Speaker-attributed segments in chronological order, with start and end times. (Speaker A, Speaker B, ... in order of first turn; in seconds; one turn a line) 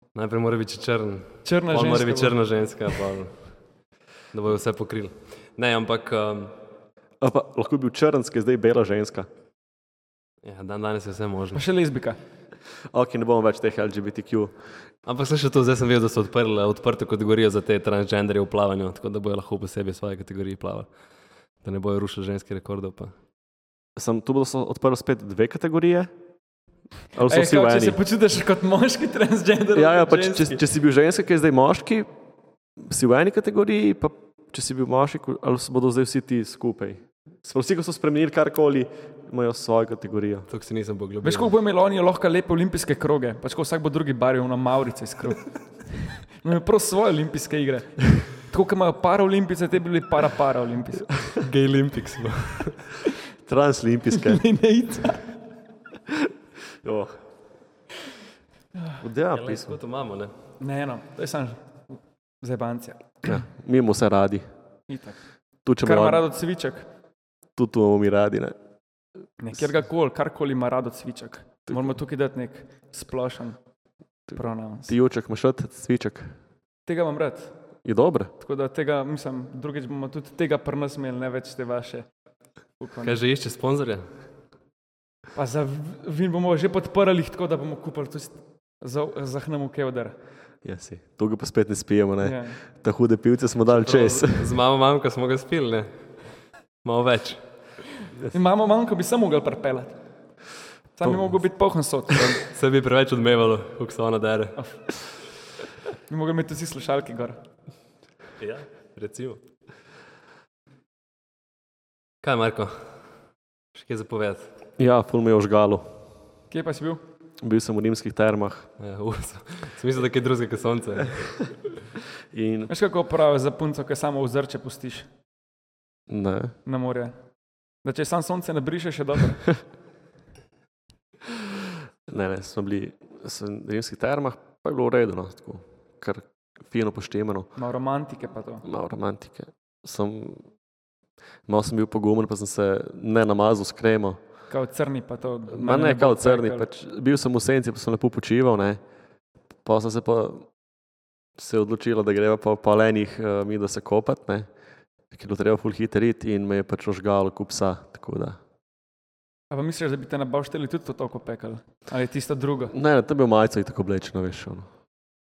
Speaker A: 0.1-3.5
Speaker B: 1.4-2.4
Speaker A: 4.3-6.6
Speaker C: 7.2-9.3
Speaker A: 10.4-11.6
Speaker B: 11.5-12.2
Speaker C: 12.9-14.5
Speaker A: 15.0-20.9
Speaker A: 21.6-23.1
Speaker C: 23.9-26.1
Speaker C: 27.1-28.0
Speaker B: 27.2-30.6
Speaker C: 29.7-32.1
Speaker C: 32.8-40.5
Speaker A: 40.5-41.5
Speaker B: 41.2-51.1
Speaker A: 51.4-52.9
Speaker C: 53.4-54.4
Speaker B: 54.2-55.3
Speaker C: 56.8-57.2
Speaker C: 59.0-59.8
Speaker A: 59.3-60.3
Speaker B: 60.6-63.4
Speaker C: 63.2-64.5
Speaker B: 64.9-65.2
Speaker C: 65.6-66.2
Speaker B: 65.8-66.8
Speaker C: 67.5-68.5
Speaker B: 69.4-73.6
Speaker C: 74.3-76.3
Speaker B: 74.3-74.9
Speaker B: 76.8-77.5
Speaker C: 77.8-78.3
Speaker B: 78.4-82.0
Speaker B: 82.8-83.2
Speaker A: 83.0-84.1
Speaker B: 85.3-90.2
Speaker C: 90.6-94.6
Speaker B: 92.2-92.6
Speaker A: 93.7-95.9
Speaker A: 96.8-97.4
Speaker B: 98.3-100.0
Speaker B: 101.0-102.3
Speaker A: 102.4-104.6
Speaker B: 106.1-107.4
Speaker A: 108.4-109.4
Speaker A: 112.2-112.9
Speaker A: 113.7-114.5
Speaker C: 114.8-116.0
Speaker B: 116.5-117.0
Speaker C: 117.4-118.7
Speaker A: 118.8-121.4
Speaker C: 122.3-122.7
Speaker B: 122.7-125.1
Speaker C: 126.1-126.5
Speaker B: 126.7-127.1
Speaker B: 127.8-129.4
Speaker C: 131.3-137.5
Speaker B: 137.6-138.6
Speaker C: 138.6-140.4
Speaker C: 141.4-144.2
Speaker B: 144.5-146.6
Speaker C: 145.5-148.8
Speaker C: 149.6-150.5
Speaker C: 151.4-154.5
Speaker C: 155.1-158.4
Speaker B: 159.5-162.7
Speaker C: 162.7-164.7